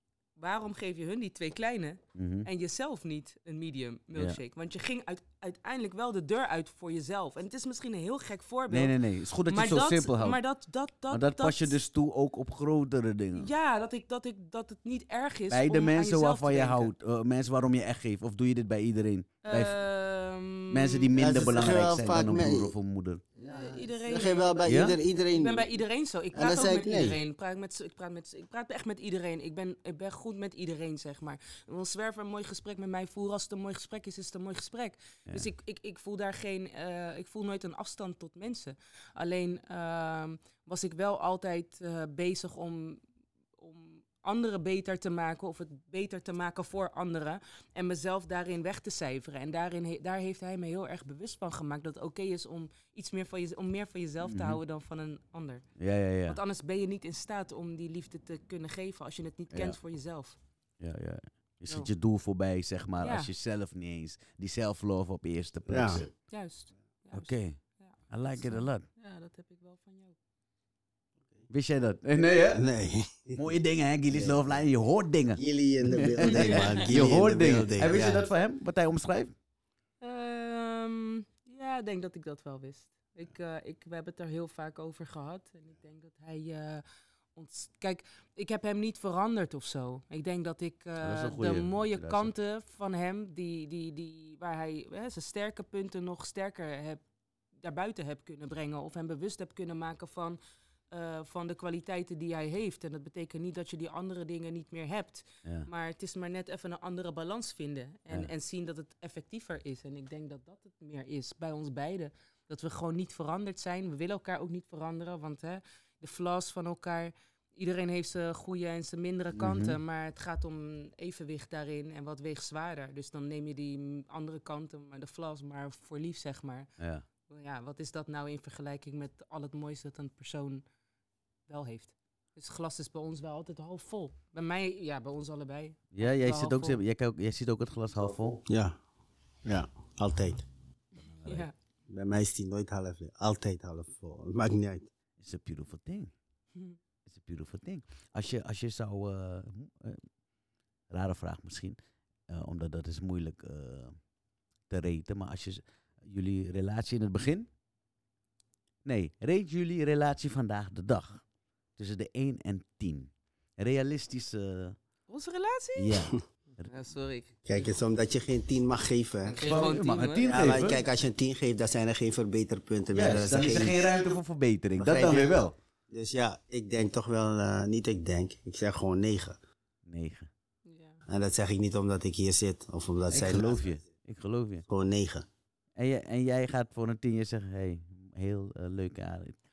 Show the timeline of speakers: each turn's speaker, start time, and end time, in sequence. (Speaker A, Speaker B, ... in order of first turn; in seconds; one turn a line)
Speaker A: 0.4-8.9
Speaker B: 2.2-2.5
Speaker B: 8.7-10.4
Speaker A: 9.5-11.8
Speaker B: 11.1-13.5
Speaker A: 13.4-16.9
Speaker B: 15.5-19.8
Speaker A: 19.4-21.1
Speaker B: 20.7-23.2
Speaker C: 21.1-22.7
Speaker C: 23.4-25.7
Speaker A: 23.4-24.7
Speaker B: 24.7-25.0
Speaker A: 25.3-43.0
Speaker C: 26.3-27.2
Speaker A: 43.6-55.6
Speaker B: 54.2-54.6
Speaker B: 55.8-56.4
Speaker A: 56.3-60.4
Speaker B: 59.5-59.8
Speaker B: 60.8-66.1
Speaker A: 63.0-63.3
Speaker C: 65.7-66.0
Speaker A: 66.3-70.2
Speaker B: 67.1-68.8
Speaker B: 71.5-72.7
Speaker C: 72.5-73.4
Speaker B: 73.4-79.3
Speaker C: 74.1-74.6
Speaker C: 75.4-78.2
Speaker A: 76.2-76.8
Speaker A: 80.0-86.8
Speaker A: 87.3-97.0
Speaker B: 91.0-92.3
Speaker A: 97.6-100.4
Speaker A: 100.9-126.7
Speaker B: 119.3-119.8
Speaker B: 126.8-127.0
Speaker A: 127.3-130.7
Speaker A: 131.5-136.8
Speaker B: 135.9-138.4
Speaker C: 138.5-138.8
Speaker C: 139.4-140.4
Speaker B: 141.2-141.4
Speaker A: 141.2-141.5
Speaker C: 141.9-144.9
Speaker B: 145.2-146.1
Speaker B: 147.1-150.0
Speaker B: 150.9-151.8
Speaker B: 152.3-153.9
Speaker B: 154.7-157.5
Speaker B: 158.8-161.2
Speaker B: 161.8-164.8
Speaker A: 165.1-166.1
Speaker B: 165.8-166.7
Speaker A: 166.6-167.4
Speaker C: 167.5-169.4
Speaker A: 169.2-170.3
Speaker B: 169.4-170.8
Speaker C: 170.2-174.0
Speaker B: 172.9-175.5
Speaker C: 174.8-179.4
Speaker B: 179.9-180.3
Speaker A: 180.7-181.0
Speaker C: 181.1-183.7
Speaker B: 183.1-184.6
Speaker C: 184.7-185.3
Speaker B: 185.8-189.4